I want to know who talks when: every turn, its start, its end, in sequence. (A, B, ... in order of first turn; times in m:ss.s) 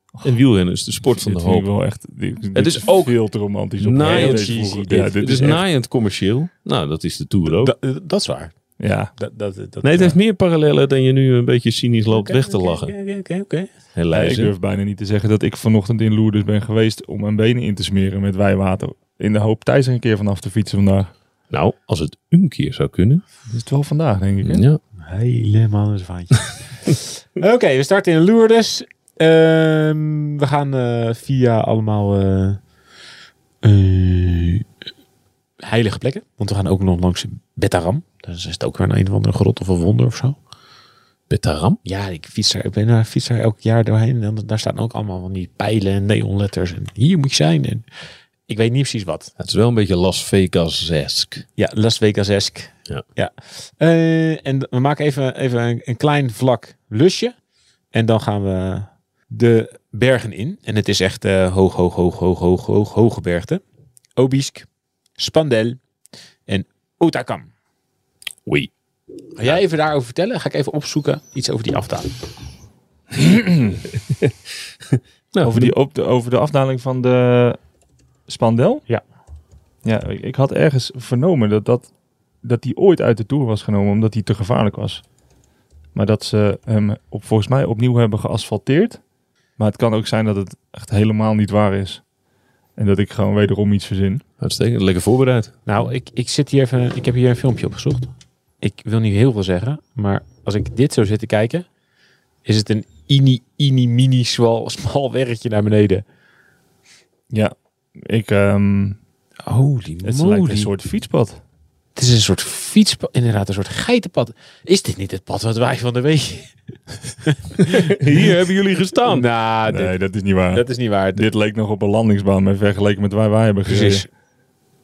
0:00.2-0:01.7 A
0:01.1-0:05.6 B
0:02.6-0:03.2 A
0:03.8-0:07.7 A
0:04.0-0:05.0 C
0:07.5-0:08.6 C
0:08.8-0:09.1 B
0:09.2-0:10.1 C
0:09.8-0:12.9 A
0:12.1-0:13.7 C
0:14.0-0:14.5 A
0:14.1-0:21.1 B
0:21.5-0:23.2 A
0:23.5-0:24.7 B
0:24.4-0:24.8 A
0:25.0-0:32.6 C
0:33.6-0:34.7 C
0:35.6-0:40.4 C
0:41.3-0:41.8 A
0:41.8-0:47.9 C
0:48.5-0:49.3 C
0:49.4-0:51.5 A
0:51.6-0:57.4 C
0:57.9-1:03.6 C
1:04.2-1:04.7 C
1:05.2-1:05.8 C
1:06.5-1:07.5 C
1:09.4-1:12.2 C
1:13.2-1:13.8 B
1:15.3-1:15.8 A
1:15.4-1:17.6 B
1:18.3-1:18.9 B
1:19.8-1:21.9 B
1:22.4-1:25.0 B
1:25.9-1:29.0 B
1:29.6-1:32.0 B
1:32.8-1:34.2 B
1:34.4-1:35.5 A
1:35.7-1:41.7 C
1:42.4-1:46.0 C
1:47.3-1:49.0 B
1:49.4-1:50.7 C
1:50.0-1:51.4 B
1:52.0-1:57.9 C
1:57.7-1:59.3 A
1:59.0-2:00.0 C
1:59.7-2:04.1 B
2:00.5-2:01.2 C
2:03.7-2:04.1 C